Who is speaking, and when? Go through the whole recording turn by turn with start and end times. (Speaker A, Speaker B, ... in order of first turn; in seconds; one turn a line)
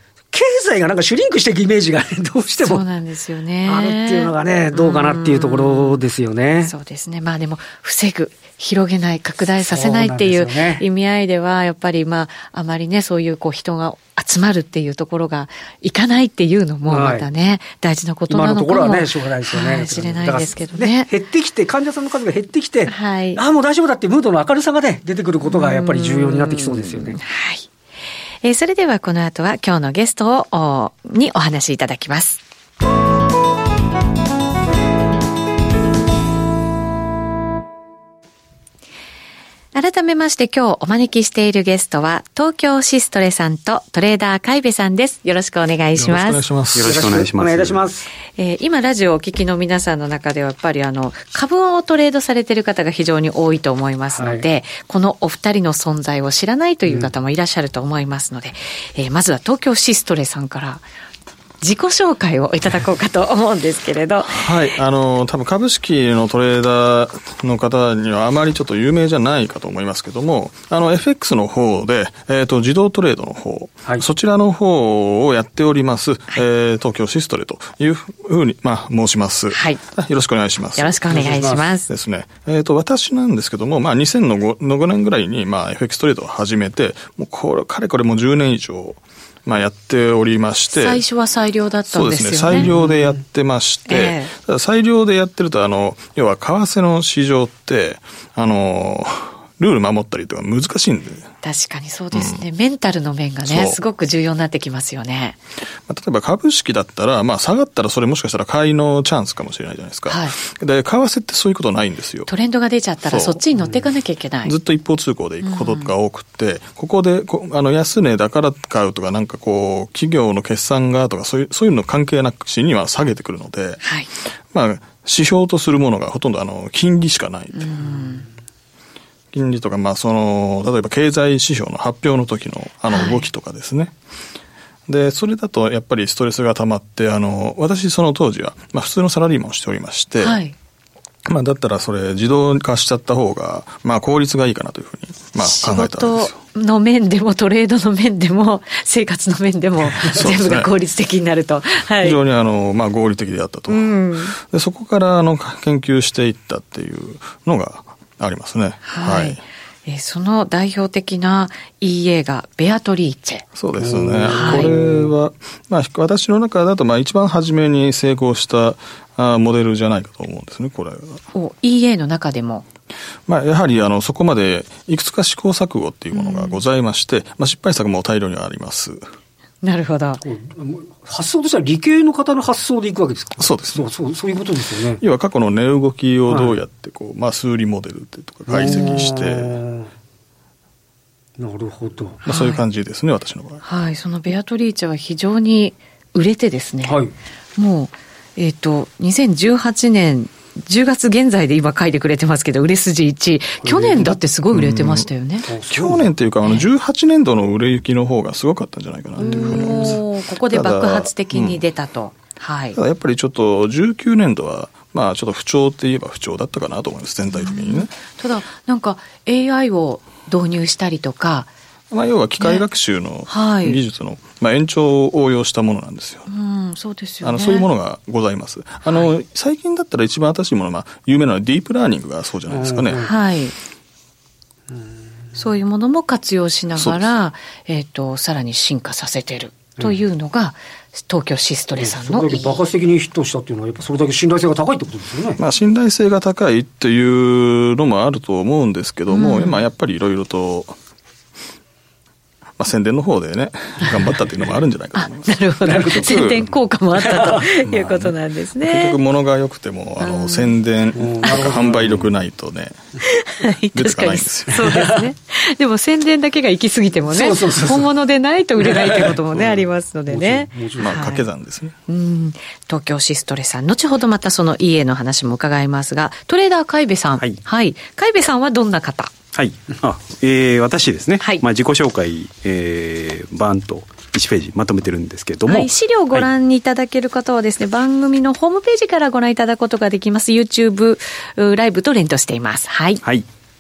Speaker A: 0.3-2.8
Speaker B: 2.6-6.0
Speaker A: 3.6-6.7
Speaker B: 6.6-21.1
Speaker A: 9.6-10.8
Speaker A: 16.9-17.3
Speaker A: 18.3-27.2
Speaker B: 22.9-23.4
Speaker B: 25.4-27.7
Speaker B: 28.4-32.4
Speaker B: 39.7-46.4
Speaker C: 45.9-47.2
Speaker D: 46.7-47.8
Speaker A: 46.8-48.1
Speaker B: 48.4-60.9
Speaker A: 54.1-54.4
Speaker A: 56.9-57.1
Speaker B: 61.6-64.5
Speaker C: 64.3-81.0
Speaker B: 79.5-79.8
Speaker B: 80.8-81.9
Speaker A: 81.1-81.7
Speaker C: 81.9-91.0
Speaker B: 90.7-92.7
Speaker C: 91.9-101.3
Speaker A: 92.6-93.0
Speaker B: 93.9-94.3
Speaker B: 101.4-105.4
Speaker C: 102.1-102.4
Speaker C: 103.4-103.8
Speaker C: 105.9-112.3
Speaker B: 110.1-110.3
Speaker B: 112.3-114.5
Speaker C: 113.1-113.4
Speaker C: 114.4-123.8
Speaker B: 115.4-115.9
Speaker B: 123.8-124.1
Speaker C: 124.5-127.8
Speaker B: 127.5-128.2
Speaker C: 129.3-133.9
Speaker B: 132.9-133.2
Speaker C: 134.9-140.4
Speaker B: 140.2-140.5
Speaker C: 141.2-146.3
Speaker B: 145.4-152.2
Speaker C: 150.0-150.7
Speaker C: 152.0-159.4
Speaker B: 153.7-154.3
Speaker B: 158.8-163.4
Speaker C: 163.5-171.2
Speaker A: 163.8-165.1
Speaker B: 164.3-164.8
Speaker B: 171.3-172.7
Speaker C: 173.3-179.0
Speaker B: 176.1-176.6
Speaker B: 179.6-180.2
Speaker A: 180.2-185.0
Speaker C: 183.4-183.8
Speaker C: 185.0-189.6
Speaker A: 186.3-186.5
Speaker A: 188.5-189.9
Speaker B: 188.6-189.0
Speaker A: 191.4-192.2
Speaker C: 192.2-193.6
Speaker B: 192.3-192.6
Speaker B: 193.6-197.0
Speaker A: 196.8-197.1
Speaker B: 197.6-205.5
Speaker A: 203.6-204.2
Speaker C: 204.5-205.1
Speaker A: 205.5-206.1
Speaker C: 205.7-211.6
Speaker B: 209.2-212.8
Speaker A: 209.2-210.0
Speaker C: 212.7-217.9
Speaker B: 217.3-221.5
Speaker C: 221.9-226.3
Speaker B: 223.3-223.8
Speaker B: 226.3-227.7
Speaker C: 227.2-233.0
Speaker A: 232.5-233.1
Speaker B: 233.0-233.5
Speaker B: 235.3-242.6
Speaker C: 236.8-237.1
Speaker A: 241.8-245.4
Speaker C: 245.4-250.8
Speaker B: 249.1-249.6
Speaker C: 252.6-256.4
Speaker B: 254.9-259.0
Speaker A: 255.6-256.3
Speaker A: 257.0-257.5
Speaker C: 257.6-262.8
Speaker B: 260.0-260.6
Speaker A: 260.9-262.1
Speaker B: 263.0-271.3
Speaker C: 263.7-264.9
Speaker A: 264.5-265.1
Speaker A: 267.1-267.9
Speaker A: 268.6-269.6
Speaker A: 270.1-270.9
Speaker C: 270.8-271.7
Speaker B: 271.9-279.1
Speaker D: 279.3-286.3
Speaker B: 285.5-293.0